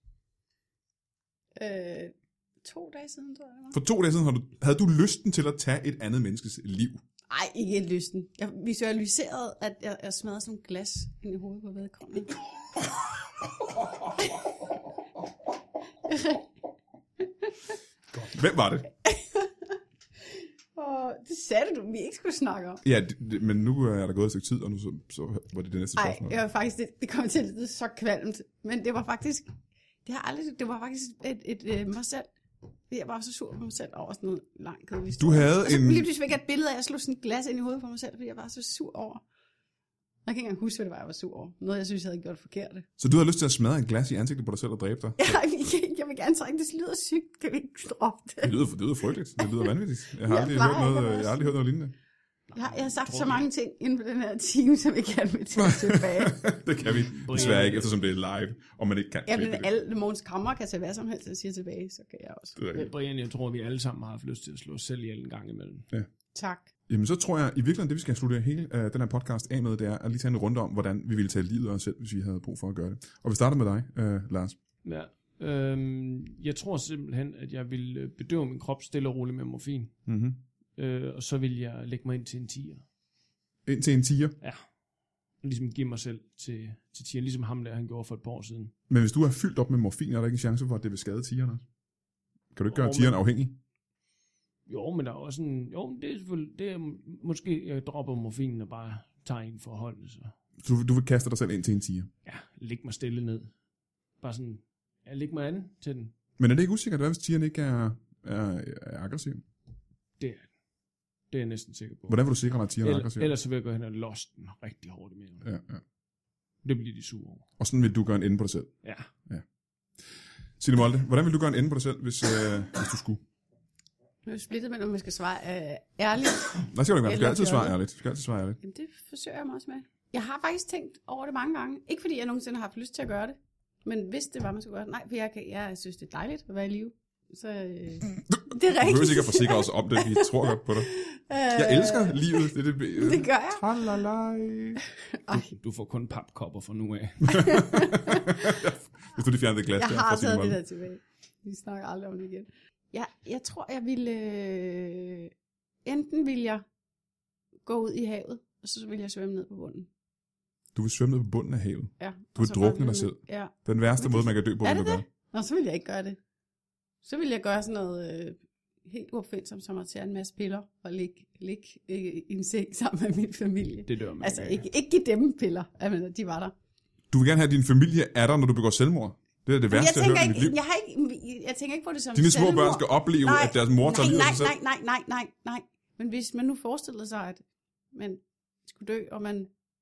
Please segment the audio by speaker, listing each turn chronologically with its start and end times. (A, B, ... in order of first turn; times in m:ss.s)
0:01.6-0:03.8 A
0:03.7-0:07.0 B
0:07.3-0:12.4 A
0:16.1-0:16.4 A
0:18.1-0:18.9 B
0:19.0-0:19.7 A
0:20.8-0:22.8 A
0:22.8-0:26.4 B
0:26.0-0:29.5 A
0:30.0-0:32.3 A
0:32.9-0:39.2 A
0:35.2-0:36.1 B
0:40.3-0:42.9 A
0:43.0-0:45.4 B
0:45.2-0:48.6 A
0:48.4-0:51.9 B
0:49.4-0:49.7 A
0:50.2-0:51.6 A
0:52.5-0:53.5 C
0:52.6-0:56.5 A
0:55.6-0:59.7 B
0:56.8-0:57.9 C
0:59.3-1:02.6 A
1:02.6-1:02.9 B
1:02.7-1:05.9 C
1:06.4-1:06.7 A
1:06.9-1:14.6 B
1:14.8-1:20.0 C
1:20.1-1:20.4 B
1:20.8-1:22.8 C
1:23.7-1:24.4 B
1:25.4-1:28.7 C
1:28.9-1:31.6 B
1:32.6-1:33.6 B
1:32.7-1:33.1 C
1:34.7-1:40.3 C
1:40.6-1:42.1 B
1:42.2-1:43.5 C
1:44.2-1:46.1 C
1:46.4-1:49.4 B
1:50.2-1:50.5 C
1:51.3-1:52.2 C
1:52.1-1:53.3 B
1:52.8-1:55.5 C
1:55.4-1:55.8 B
1:56.6-1:57.4 C
1:57.6-1:58.7 B
1:58.8-1:59.1 C
2:00.6-2:03.2 B
2:04.3-2:07.8 A
2:06.7-2:08.6 B
2:08.6-2:23.6 A
2:18.3-2:20.9 B
2:21.5-2:24.8 B
2:25.2-2:25.5 A
2:25.3-2:27.6 C
2:27.2-2:30.6 B
2:27.3-2:28.6 A
2:29.8-2:35.3 A
2:35.8-2:36.6 A
2:37.6-2:39.9 A
2:40.8-2:45.0 B
2:42.0-2:46.2 A
2:47.0-2:56.5 A
2:53.9-2:54.6 C
2:57.1-3:00.6 B
2:59.7-3:07.4 A
3:02.2-3:04.5 B
3:07.9-3:09.5 A